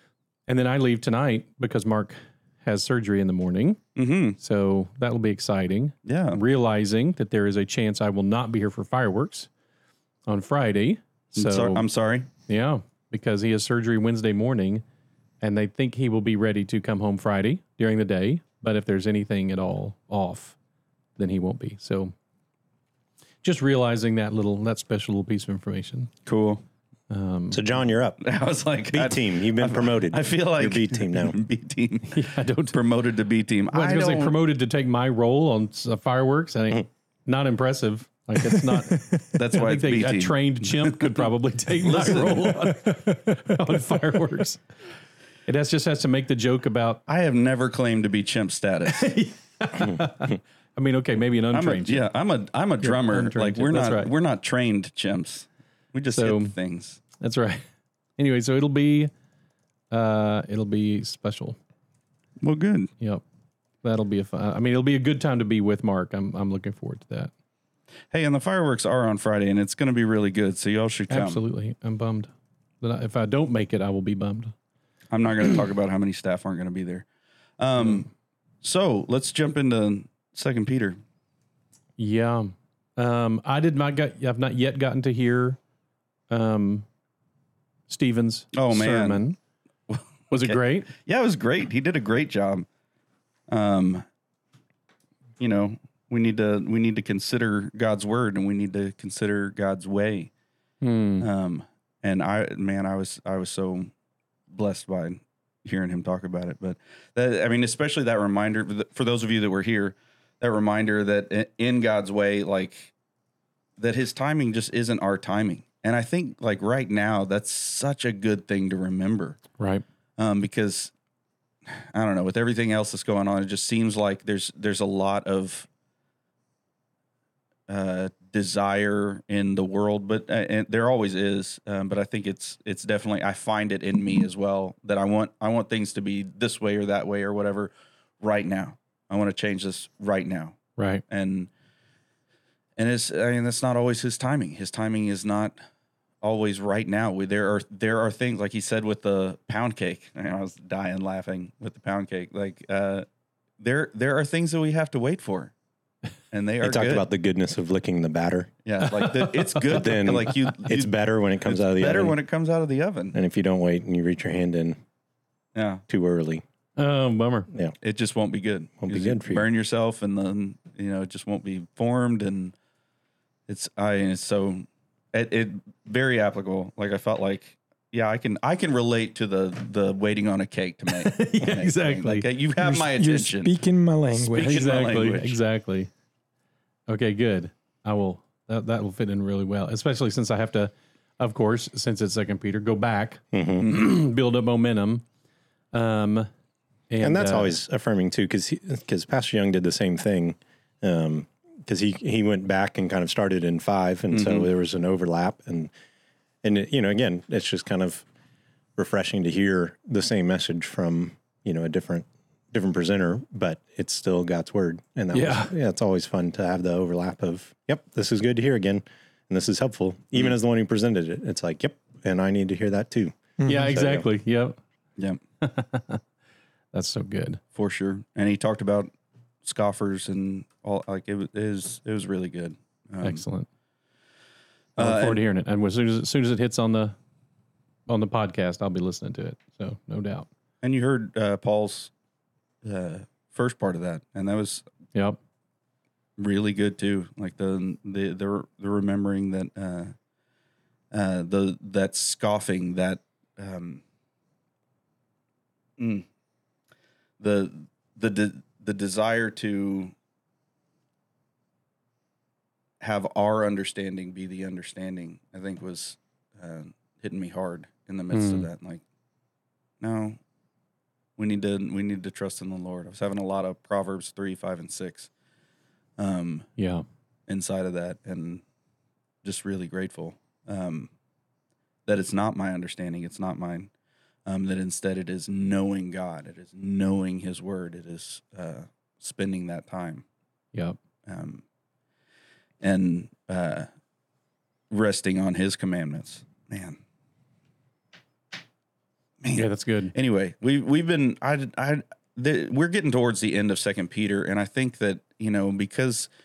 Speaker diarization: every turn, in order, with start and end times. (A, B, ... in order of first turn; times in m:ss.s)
0:00.5-0:03.8 A
0:04.0-0:04.4 B
0:04.4-0:09.5 A
0:06.0-0:06.4 B
0:10.2-0:11.8 A
0:11.4-0:12.3 B
0:12.5-0:14.8 A
0:15.4-0:20.6 A
0:21.2-0:22.1 A
0:23.4-0:26.1 A
0:26.2-0:26.6 B
0:27.1-0:27.6 A
0:27.5-0:28.2 C
0:28.2-0:34.4 B
0:28.9-0:31.4 C
0:32.1-0:32.8 A
0:33.7-0:44.6 A
0:39.3-0:41.2 B
0:41.8-0:42.4 B
0:45.5-0:47.0 A
0:47.1-0:49.1 B
0:48.9-0:52.0 A
0:51.5-0:57.0 B
0:52.8-0:54.1 A
0:56.1-0:56.5 A
0:57.2-0:57.6 A
0:58.2-0:59.1 A
0:59.9-1:01.6 A
1:02.4-1:02.9 B
1:03.8-1:07.3 A
1:08.1-1:11.4 B
1:11.1-1:14.5 A
1:15.1-1:17.0 B
1:17.6-1:18.1 B
1:18.6-1:21.0 B
1:22.0-1:25.6 A
1:26.3-1:26.8 A
1:27.9-1:29.4 A
1:28.5-1:29.2 B
1:29.9-1:32.6 B
1:30.3-1:30.9 A
1:33.5-1:34.0 B
1:35.4-1:40.3 B
1:40.8-1:41.3 A
1:41.2-1:43.9 B
1:44.5-1:52.9 B
1:53.8-1:59.4 B
1:59.6-1:59.8 A
2:00.2-2:00.9 B
2:01.9-2:05.7 B
2:07.7-2:20.6 B
2:21.1-2:21.5 B
2:22.8-2:25.6 B
2:26.2-2:33.0 B
2:33.6-2:35.5 B
2:36.3-2:37.0 B
2:36.6-2:38.5 C
2:38.6-2:43.2 B
2:39.0-2:39.8 A
2:39.7-2:42.2 C
2:43.1-2:44.8 C
2:45.5-2:45.8 B
2:45.9-2:46.4 C
2:46.8-2:47.5 A
2:47.8-2:52.5 B
2:48.8-2:49.5 C
2:53.5-3:03.6 B
3:00.9-3:02.3 A
3:02.6-3:04.7 D
3:04.1-3:05.4 B
3:04.4-3:05.9 A
3:06.9-3:15.0 A
3:13.3-3:13.6 C
3:15.7-3:16.3 A
3:16.9-3:17.6 A
3:17.0-3:25.7 C
3:24.1-3:24.5 B
3:26.4-3:28.0 C
3:28.8-3:44.1 C
3:35.1-3:35.5 A
3:43.4-3:44.6 A
3:45.4-3:46.0 A
3:46.7-3:47.4 A
3:47.5-3:48.9 B
3:49.4-3:53.2 B
3:53.0-3:53.5 A
3:54.8-3:55.2 B
3:54.8-3:56.9 A
3:57.9-4:00.3 A
4:00.6-4:01.9 B
4:02.6-4:04.6 B
4:04.9-4:05.2 A
4:06.2-4:09.9 B
4:10.9-4:13.8 B
4:15.8-4:16.0 B
4:17.2-4:19.9 B
4:22.8-4:28.8 B
4:28.1-4:28.5 A
4:29.8-4:30.2 B
4:31.2-4:35.1 B
4:36.0-4:36.5 B
4:36.6-4:36.8 A
4:37.3-4:38.4 B
4:39.2-4:40.9 B
4:41.9-4:43.7 B
4:44.2-4:50.0 B
4:51.0-4:51.4 B
4:52.6-4:53.7 B
4:54.7-4:56.8 B
4:59.2-5:06.1 B
4:59.3-4:59.9 A